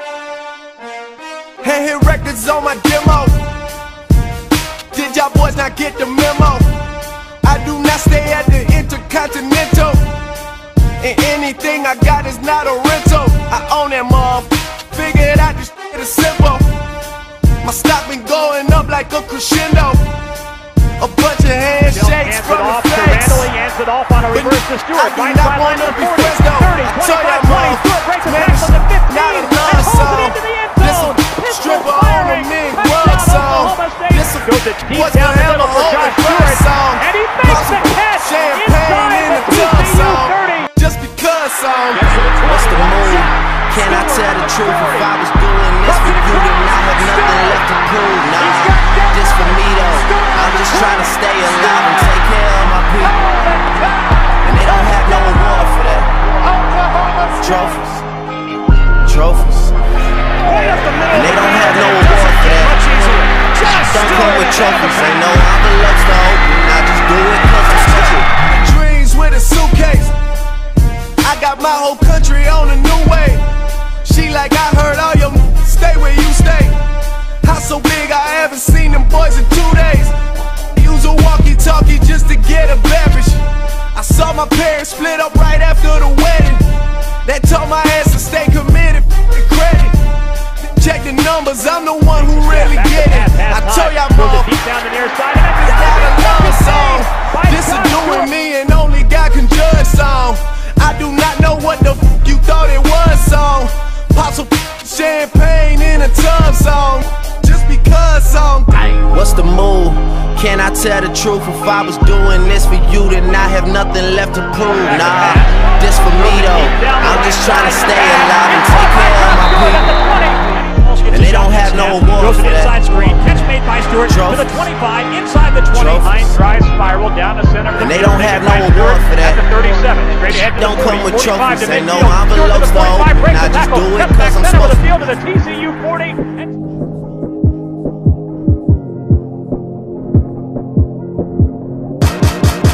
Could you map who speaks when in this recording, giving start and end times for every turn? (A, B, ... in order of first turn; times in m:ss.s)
0:01.6-0:03.4 A
0:04.9-0:06.7 A
0:07.4-0:10.0 A
0:11.0-0:16.7 A
0:17.6-0:20.0 A
0:21.0-0:23.5 A
0:21.8-0:40.7 B
0:24.3-0:42.1 A
0:41.9-0:45.1 B
0:42.2-0:53.4 C
0:45.8-0:47.6 B
0:48.4-0:52.1 B
0:53.0-0:54.4 B
0:54.4-0:56.1 C
0:56.3-0:57.4 B
0:56.4-0:57.6 A
0:57.4-0:58.0 C
0:59.0-0:59.8 C
1:00.4-1:05.3 B
1:01.1-1:02.8 C
1:03.7-1:08.3 C
1:07.7-1:10.1 A
1:11.2-1:13.4 A
1:14.0-1:16.8 A
1:17.4-1:20.2 A
1:20.7-1:23.4 A
1:23.9-1:26.6 A
1:27.2-1:30.0 A
1:30.7-1:34.5 A
1:32.1-1:38.3 B
1:35.5-1:49.0 A
1:49.0-2:00.0 C
1:54.6-2:16.5 B
2:01.0-2:03.2 C
2:04.0-2:04.6 C
2:05.7-2:06.4 C
2:07.8-2:09.4 C
2:10.3-2:15.0 C